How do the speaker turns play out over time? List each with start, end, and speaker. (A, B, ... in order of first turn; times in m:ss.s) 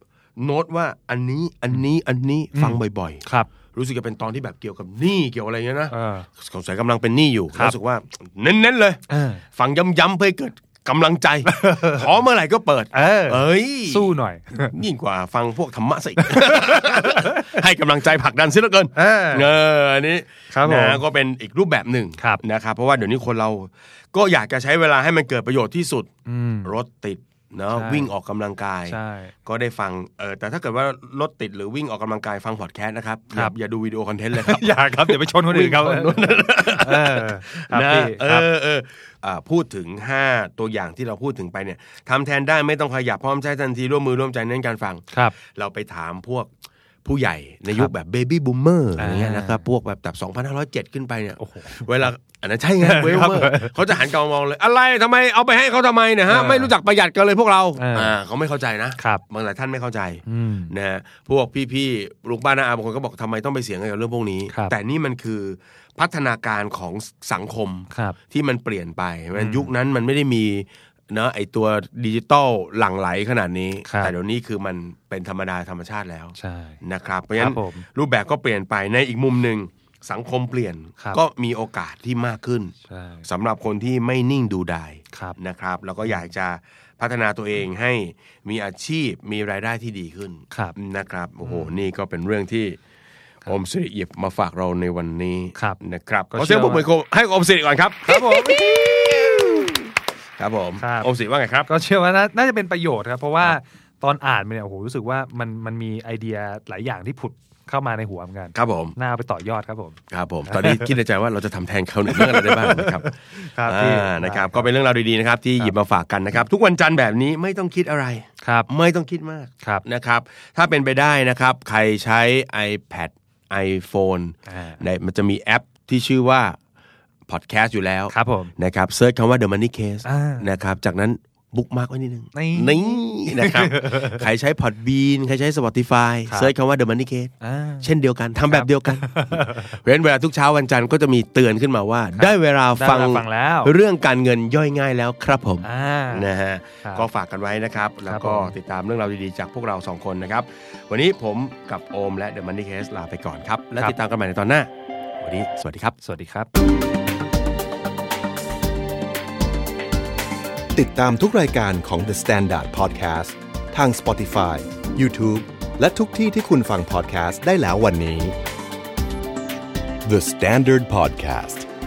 0:00.4-0:14.1 A
0:02.5-0:03.5 B
0:05.9-0:06.3 B
0:09.1-0:09.4 B
0:11.4-0:12.0 B
0:12.9-0:14.7 B
0:14.7-0:26.1 A
0:16.2-0:17.5 B
0:18.9-0:19.5 B
0:20.5-0:21.0 B
0:22.2-0:22.4 B
0:26.2-0:26.7 B
0:26.6-0:46.5 A
0:27.7-0:28.1 B
0:28.9-0:29.3 B
0:34.3-0:38.5 B
0:47.0-1:22.7 A
0:49.0-0:49.6 B
0:51.4-0:51.9 B
0:52.8-0:53.8 B
0:56.3-0:56.7 B
0:57.8-0:58.1 B
1:00.2-1:00.7 B
1:04.5-1:04.7 B
1:07.9-1:08.2 B
1:09.3-1:09.7 B
1:13.8-1:14.1 B
1:16.4-1:16.8 B
1:17.4-1:17.8 B
1:22.8-1:23.2 B
1:23.2-1:32.8 A
1:30.5-1:30.8 B
1:31.4-1:31.7 B
1:33.4-1:41.7 A
1:36.3-1:36.9 B
1:38.0-1:38.7 B
1:40.8-1:41.1 B
1:41.6-1:51.0 B
1:48.5-1:48.9 A
1:50.1-2:06.6 A
1:52.1-1:54.7 B
1:58.4-1:58.7 B
2:04.5-2:04.8 B
2:07.3-2:35.9 A
2:08.1-2:08.5 B
2:10.0-2:10.4 B
2:12.3-2:14.2 B
2:17.4-2:17.9 B
2:18.5-2:19.7 B
2:22.2-2:23.7 B
2:25.6-2:26.3 B
2:28.1-2:28.5 B
2:36.0-2:36.5 B
2:40.7-2:48.4 C
2:50.0-2:51.7 C